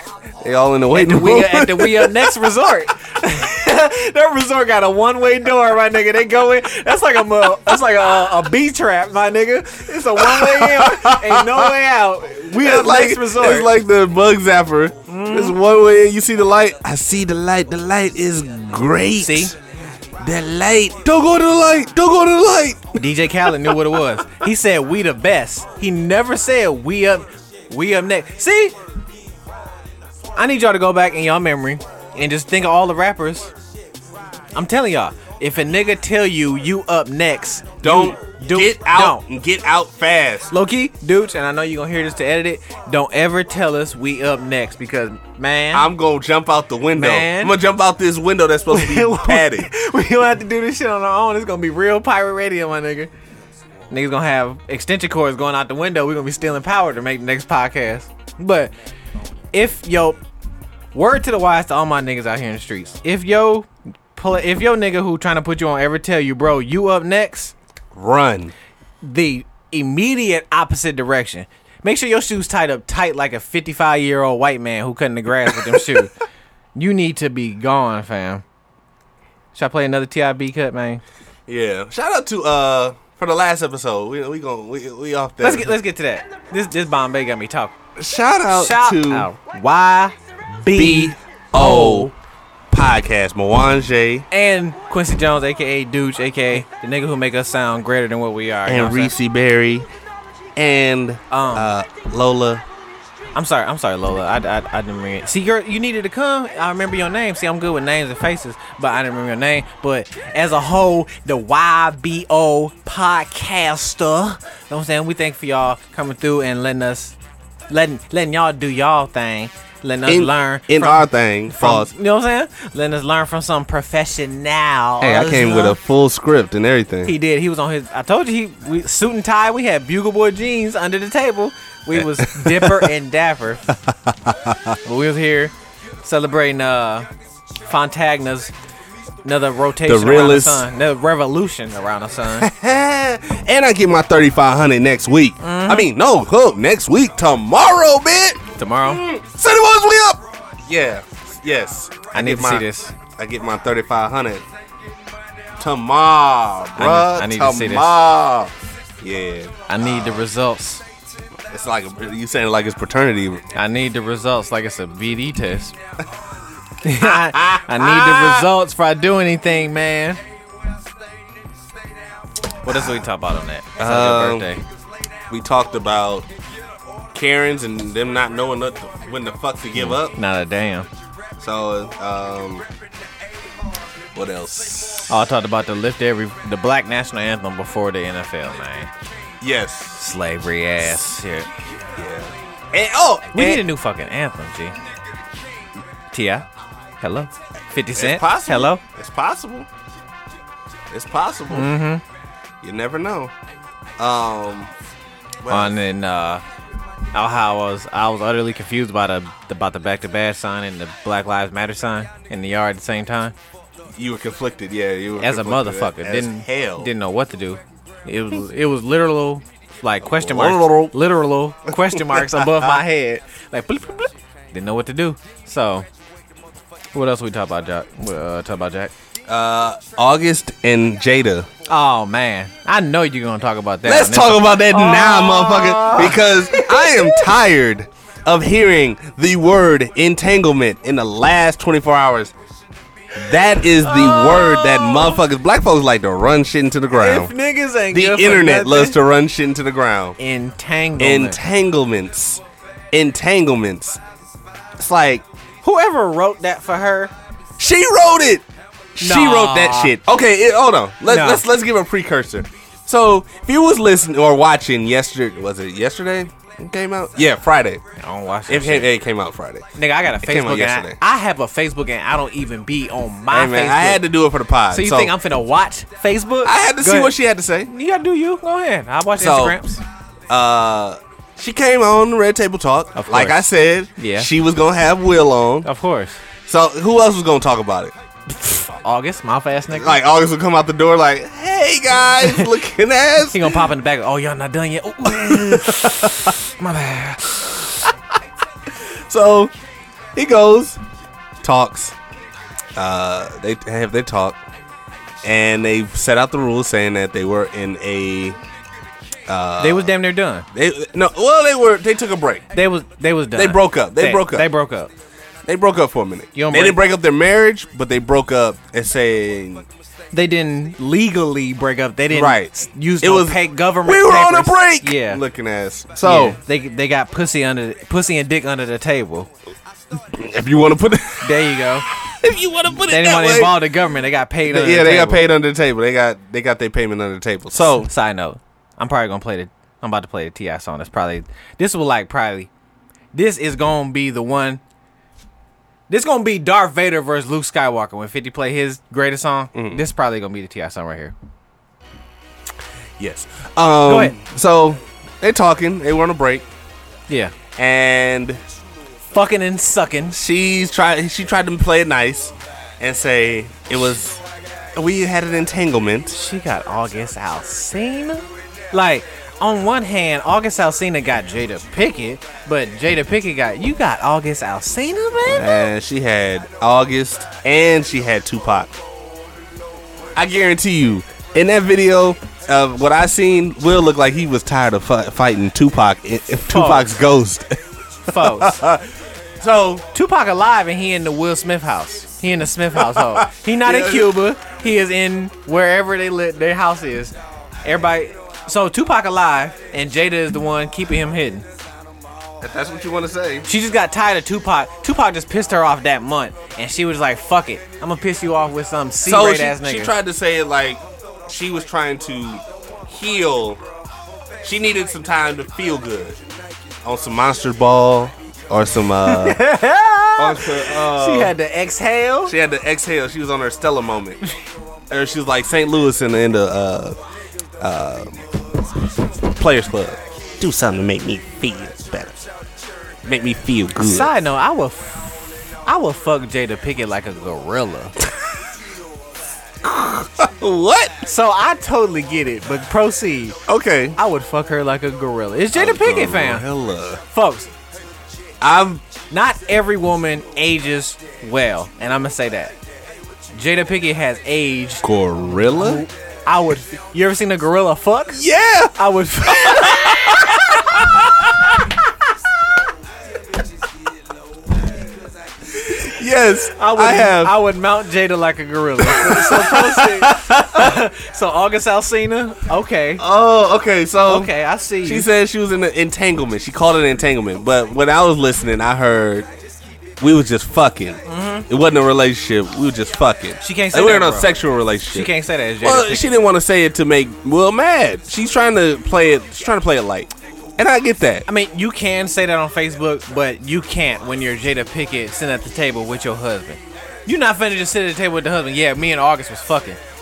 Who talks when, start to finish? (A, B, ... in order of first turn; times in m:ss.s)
0:00.4-0:02.7 A
0:00.9-0:13.7 B
0:10.2-0:11.8 A
0:12.5-0:19.6 A
0:15.1-0:15.6 B
0:19.2-0:19.5 B
0:20.2-0:23.9 A
0:23.0-0:28.8 B
0:30.4-0:33.5 B
0:34.6-0:39.2 B
0:37.8-0:40.5 A
0:40.5-0:45.9 B
0:45.7-0:49.7 A
0:47.0-0:47.6 B
0:48.7-0:53.1 B
0:53.9-0:58.7 B
0:59.5-1:00.2 B
1:00.9-1:07.6 B
1:07.9-1:08.5 A
1:09.0-1:16.1 B
1:15.5-1:16.1 A
1:16.8-1:18.4 B
1:19.5-1:21.0 B
1:21.5-1:25.7 A
1:25.4-1:27.7 B
1:28.0-1:29.3 A
1:28.5-1:32.1 B
1:30.7-1:32.1 A
1:32.7-1:34.3 A
1:34.3-1:39.1 B
1:38.7-1:39.9 A
1:40.6-1:42.6 A
1:41.3-1:41.7 B
1:43.4-1:57.2 B
1:57.7-2:05.8 B
2:00.1-2:01.9 A
2:05.0-2:07.2 A
2:07.1-2:13.7 B
2:11.9-2:12.9 A
2:13.7-2:14.8 A
2:14.8-2:15.5 B
2:16.0-2:17.1 B
2:17.6-2:18.5 B
2:19.2-2:22.5 B
2:19.9-2:20.7 A
2:22.4-2:34.4 A
2:25.4-2:25.9 B
2:28.6-2:29.0 B
2:32.1-2:32.9 B
2:35.6-2:40.2 A
2:36.8-2:37.9 B
2:39.7-2:40.8 B
2:41.5-2:43.4 A
2:43.6-2:45.8 B
2:46.8-2:50.2 B
2:47.0-2:48.5 A
2:52.6-2:54.6 B
2:52.7-2:53.0 A
2:53.8-2:54.5 A
2:55.3-2:56.3 A
2:57.1-3:00.2 A
2:59.8-3:00.9 B
3:01.4-3:02.7 A
3:04.1-3:05.2 A
3:05.1-3:08.9 B
3:09.4-3:10.0 A
3:10.0-3:11.5 B
3:11.9-3:13.7 A
3:13.3-3:14.8 B
3:16.1-3:16.5 B
3:17.0-3:18.8 B
3:17.9-3:19.7 A
3:20.9-3:21.7 A
3:21.5-3:22.0 B
3:22.6-3:23.3 A
3:24.0-3:24.7 A
3:25.4-3:25.8 A
3:25.5-3:26.4 B
3:27.1-3:33.4 B
3:34.0-3:36.9 A
3:35.2-3:45.9 B
3:40.0-3:41.0 A
3:41.7-3:42.8 A
3:46.9-3:48.9 B
3:49.3-3:51.5 A
3:51.7-3:57.3 B
3:53.8-4:02.3 A
4:03.2-4:07.3 A
4:03.8-4:05.2 B
4:06.9-4:09.0 B
4:07.9-4:10.2 A
4:10.2-4:11.4 B
4:11.0-4:14.0 A
4:14.8-4:15.2 A
4:15.6-4:17.1 B
4:17.6-4:27.8 A
4:19.0-4:20.0 B
4:21.1-4:21.4 B
4:28.0-4:28.9 B
4:28.5-4:31.0 A
4:29.8-4:34.0 B
4:33.3-4:35.1 A
4:34.7-4:37.1 B
4:36.4-4:37.7 A
4:37.7-4:39.8 B
4:39.2-4:39.6 A
4:40.3-4:45.7 A
4:43.0-4:44.3 B
4:45.6-4:46.2 B
4:46.5-4:48.0 A
4:48.5-4:50.0 B
4:49.7-4:53.6 A
4:52.2-4:52.5 B
4:53.3-4:57.7 B
4:55.0-4:56.3 A
4:58.9-4:59.5 A
5:00.2-5:00.8 A
5:01.4-5:02.0 A
5:02.8-5:04.4 A
5:05.2-5:08.4 A
5:09.3-5:09.9 A
5:09.6-5:10.5 B
5:10.5-5:12.5 A
5:12.5-5:14.9 B
5:13.4-5:14.5 A
5:15.5-5:19.7 A
5:16.4-5:16.8 B
5:20.1-5:25.2 B
5:22.1-5:26.4 A
5:26.0-5:29.3 B
5:30.0-5:33.6 A
5:31.2-5:31.9 B
5:32.9-5:35.2 B
5:34.4-5:37.9 A
5:37.9-5:42.5 B
5:43.1-5:44.6 B
5:45.9-5:51.1 B
5:49.5-5:49.8 A
5:53.0-5:56.5 A
5:53.9-5:54.2 B
5:57.1-5:57.3 B
5:57.6-5:58.4 A
5:59.1-6:00.2 B
6:00.1-6:04.2 A
6:04.8-6:06.2 A
6:06.1-6:15.7 B
6:15.3-6:18.8 A
6:20.2-6:29.8 A
6:26.5-6:27.0 B
6:28.1-6:28.6 B
6:29.9-6:37.1 B
6:32.8-6:34.2 A
6:37.6-6:41.5 B
6:42.4-6:43.5 A
6:43.5-6:49.9 B
6:49.0-6:53.6 A
6:54.4-6:56.2 A
6:56.8-6:59.5 A
6:59.0-7:02.3 B
7:00.2-7:01.4 A
7:02.2-7:04.2 A
7:04.9-7:07.0 A
7:07.6-7:12.2 A
7:13.0-7:14.1 A
7:13.8-7:17.9 B
7:18.0-7:18.3 A
7:19.6-7:21.0 A
7:21.0-7:23.4 B
7:23.5-7:24.0 A
7:24.0-7:26.4 B
7:25.5-7:27.0 A
7:27.1-7:27.5 B
7:28.4-7:28.8 A
7:29.1-7:32.5 B
7:33.4-7:34.8 B
7:34.8-7:35.8 A
7:35.6-7:38.2 B
7:38.1-7:41.6 A
7:38.8-7:40.8 B
7:45.5-7:47.4 A
7:46.6-7:53.0 B
7:48.8-7:50.8 A
7:53.0-7:59.3 A
7:54.0-7:55.1 B
8:00.0-8:11.3 A
8:01.1-8:01.5 B
8:03.4-8:04.3 B
8:04.9-8:06.1 B
8:11.3-8:19.8 B